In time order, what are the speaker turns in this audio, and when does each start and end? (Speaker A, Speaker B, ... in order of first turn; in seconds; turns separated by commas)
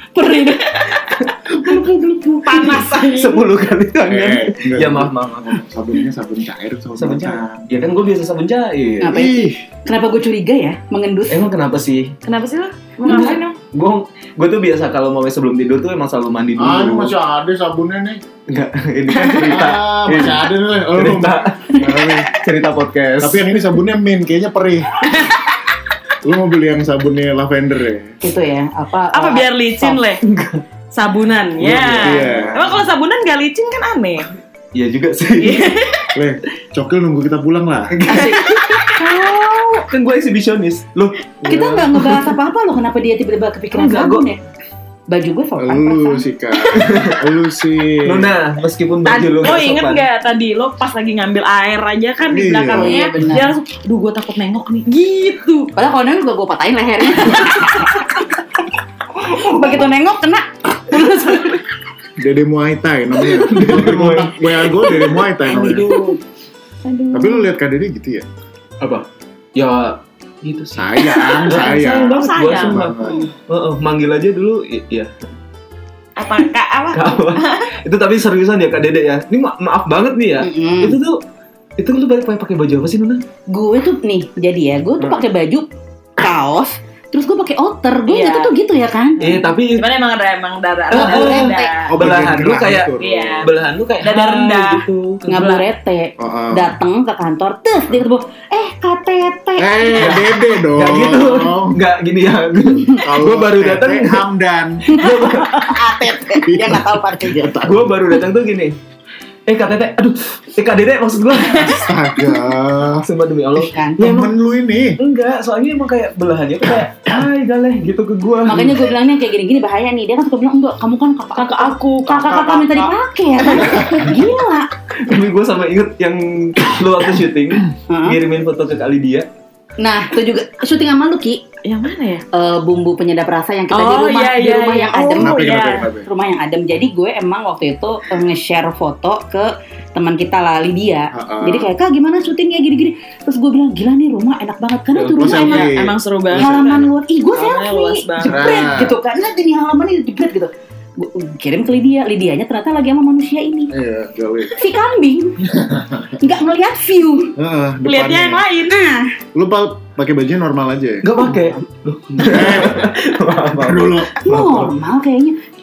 Speaker A: 0.1-0.8, Speaker B: 0.4-1.2, Speaker C: 1.5-1.9, Speaker A: 1.6-2.8, Speaker B: 2.4-3.5, Speaker C: 2.5-5.6, Speaker D: 4.0-7.7, Speaker C: 7.0-9.3, Speaker A: 9.0-11.4, Speaker D: 9.1-9.6, Speaker C: 11.3-12.1, Speaker B: 12.2-13.6, Speaker C: 13.0-17.1, Speaker D: 16.6-18.2, Speaker C: 18.5-23.4, Speaker B: 19.1-19.7, Speaker D: 19.4-22.3, Speaker D: 23.2-25.0, Speaker D: 26.2-28.1, Speaker A: 28.2-30.0, Speaker B: 29.1-30.2, Speaker C: 30.2-30.6, Speaker B: 30.9-34.3, Speaker C: 31.6-32.8, Speaker D: 32.0-32.8, Speaker C: 34.7-35.7, Speaker B: 35.4-36.1, Speaker D: 36.1-37.9, Speaker C: 37.9-39.3, Speaker A: 38.1-39.9, Speaker C: 39.8-41.2, Speaker D: 41.4-42.0, Speaker A: 41.5-44.4, Speaker C: 41.9-42.3, Speaker C: 43.7-44.2, Speaker A: 45.1-46.2, Speaker D: 45.6-48.4, Speaker B: 46.5-46.8, Speaker C: 46.7-47.3, Speaker C: 48.0-50.0, Speaker B: 49.0-55.7, Speaker D: 52.3-53.1, Speaker A: 52.7-53.5, Speaker A: 55.7-57.9, Speaker B: 57.2-57.9, Speaker A: 59.1-61.6, Speaker D: 62.2-65.9, Speaker C: 63.3-66.2, Speaker A: 65.5-66.2, Speaker A: 66.8-67.5, Speaker D: 67.1-68.3, Speaker C: 68.8-75.1, Speaker D: 70.7-73.2, Speaker B: 71.3-73.3, Speaker B: 76.2-77.7, Speaker C: 76.9-81.2, Speaker A: 80.4-81.0, Speaker C: 81.8-83.2, Speaker A: 83.5-89.3, Speaker B: 88.1-88.5, Speaker B: 89.2-92.0, Speaker C: 89.2-89.8, Speaker C: 90.9-95.2, Speaker A: 90.9-91.8, Speaker D: 91.9-93.4, Speaker B: 93.0-95.7, Speaker A: 95.3-100.2, Speaker D: 96.2-96.7, Speaker D: 99.6-101.8, Speaker C: 100.0-104.2, Speaker D: 103.0-105.0, Speaker C: 104.8-105.8, Speaker A: 104.9-107.5, Speaker D: 106.2-107.9, Speaker C: 107.6-108.8, Speaker C: 109.5-111.9, Speaker D: 111.5-113.0, Speaker C: 113.0-114.4, Speaker A: 113.6-114.0, Speaker D: 114.0-115.0, Speaker C: 115.0-118.9, Speaker A: 118.5-124.7, Speaker B: 121.3-122.9, Speaker C: 125.0-129.3, Speaker A: 127.9-128.2, Speaker A: 129.8-131.4, Speaker B: 131.6-132.2, Speaker A: 132.3-135.4, Speaker B: 133.7-135.9, Speaker D: 135.2-136.1, Speaker A: 136.0-145.7, Speaker D: 141.1-141.7, Speaker C: 144.9-145.3, Speaker D: 145.2-146.9, Speaker B: 145.2-148.4, Speaker A: 146.3-153.7, Speaker D: 148.2-149.0, Speaker D: 153.7-154.6, Speaker A: 154.5-155.6, Speaker D: 155.6-156.1, Speaker A: 156.1-157.3, Speaker D: 157.4-158.4, Speaker B: 157.8-158.8, Speaker A: 158.7-159.1, Speaker D: 159.3-161.1, Speaker C: 161.0-164.8, Speaker D: 162.2-162.9, Speaker D: 163.5-164.1, Speaker A: 164.2-165.4